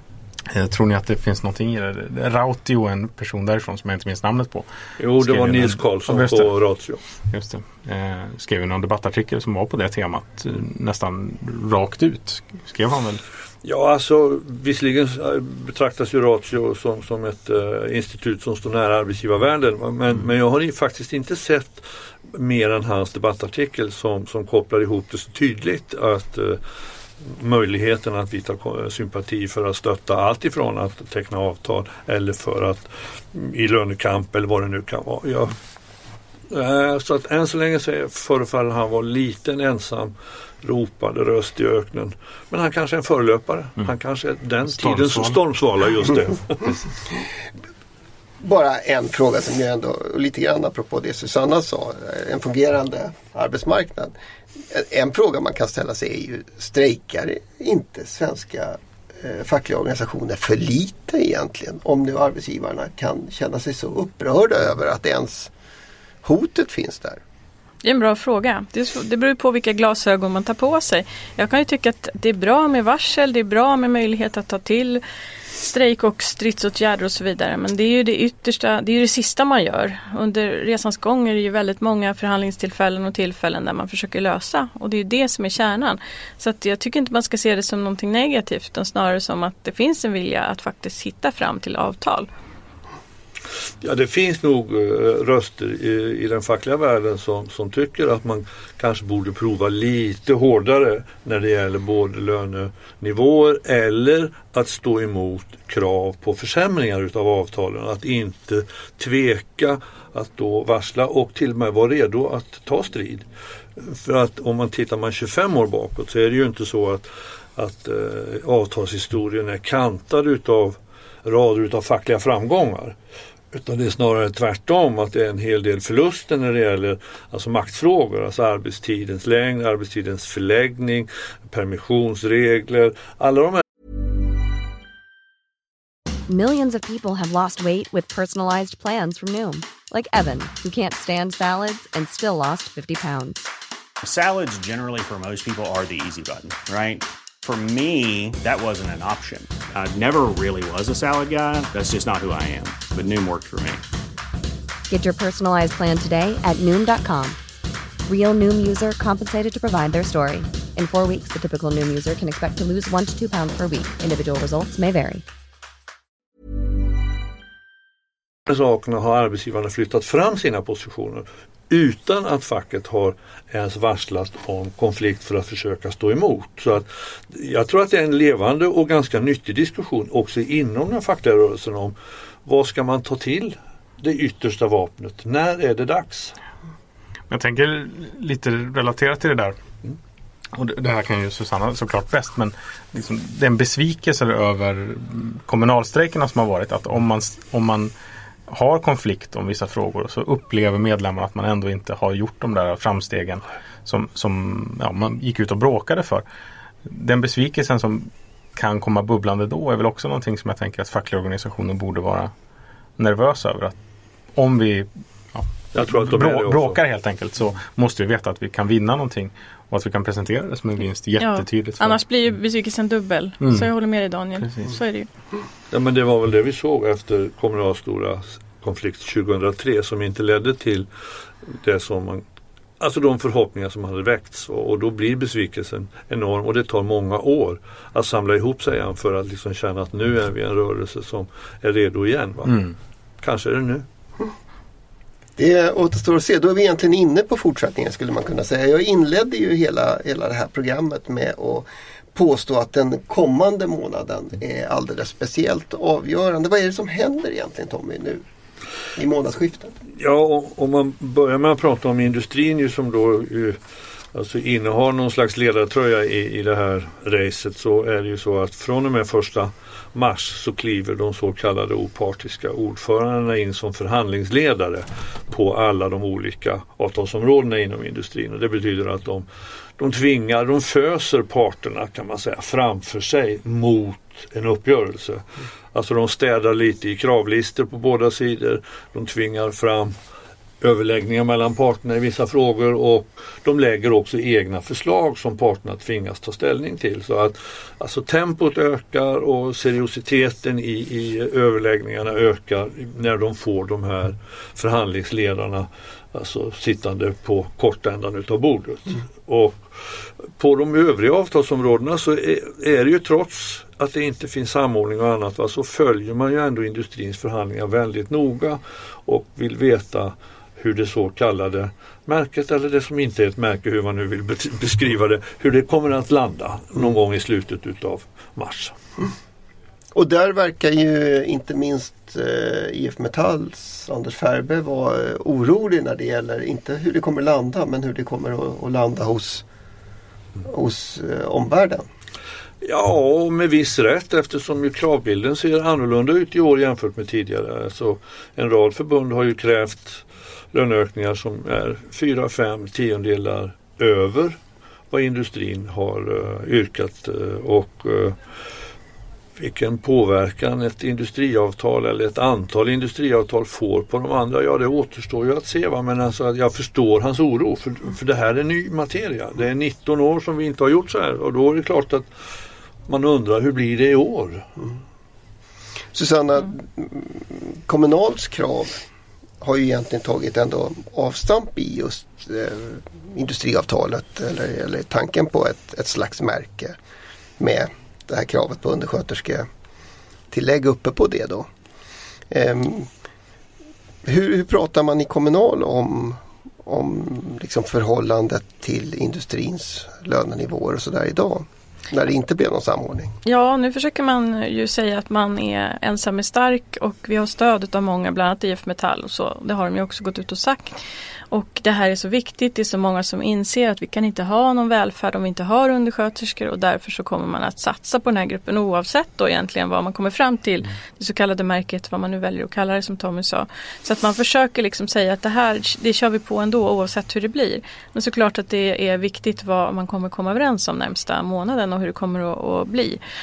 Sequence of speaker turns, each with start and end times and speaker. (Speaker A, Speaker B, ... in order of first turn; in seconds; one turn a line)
Speaker A: 0.5-6.5
Speaker B: 5.0-7.0
Speaker A: 7.3-13.2
Speaker B: 13.6-26.6
Speaker B: 27.2-35.6
Speaker B: 36.5-46.9
Speaker A: 44.6-45.4
Speaker C: 48.4-54.1
Speaker C: 54.7-65.5
Speaker C: 66.2-67.2
Speaker D: 67.8-75.0
Speaker D: 75.6-92.3
Speaker B: 93.8-113.2
Speaker B: 113.8-123.0
Speaker B: 123.5-133.6
Speaker E: 136.3-143.5
Speaker F: 144.0-153.8
Speaker E: 154.9-157.4
Speaker E: 158.1-165.2
Speaker B: 168.5-181.9
Speaker B: 182.4-186.3
Speaker A: 187.3-189.6
Speaker A: 190.5-197.9
Speaker A: 198.5-206.2
Speaker A: 206.8-212.3
Speaker A: 213.0-213.8
Speaker A: 214.3-222.0
Speaker B: 215.7-216.8
Speaker D: 221.2-225.1
Speaker A: 223.4-223.7
Speaker A: 224.4-224.7
Speaker B: 225.7-230.9
Speaker B: 231.4-232.2
Speaker B: 232.8-242.7
Speaker B: 243.2-243.8
Speaker C: 245.4-258.2
Speaker C: 258.9-259.7
Speaker B: 260.0-263.6
Speaker B: 264.1-279.2
Speaker B: 279.8-289.9
Speaker B: 290.6-309.6
Speaker B: 310.4-328.7
Speaker C: 329.9-339.4
Speaker C: 340.4-341.9
Speaker B: 342.6-354.4
Speaker B: 354.9-358.2
Speaker B: 359.4-372.1
Speaker B: 372.9-374.5
Speaker C: 375.9-378.8
Speaker C: 379.4-386.8
Speaker C: 387.4-389.5
Speaker C: 390.3-391.5
Speaker C: 392.3-392.9
Speaker C: 394.0-403.1
Speaker D: 403.2-410.8
Speaker D: 411.3-433.0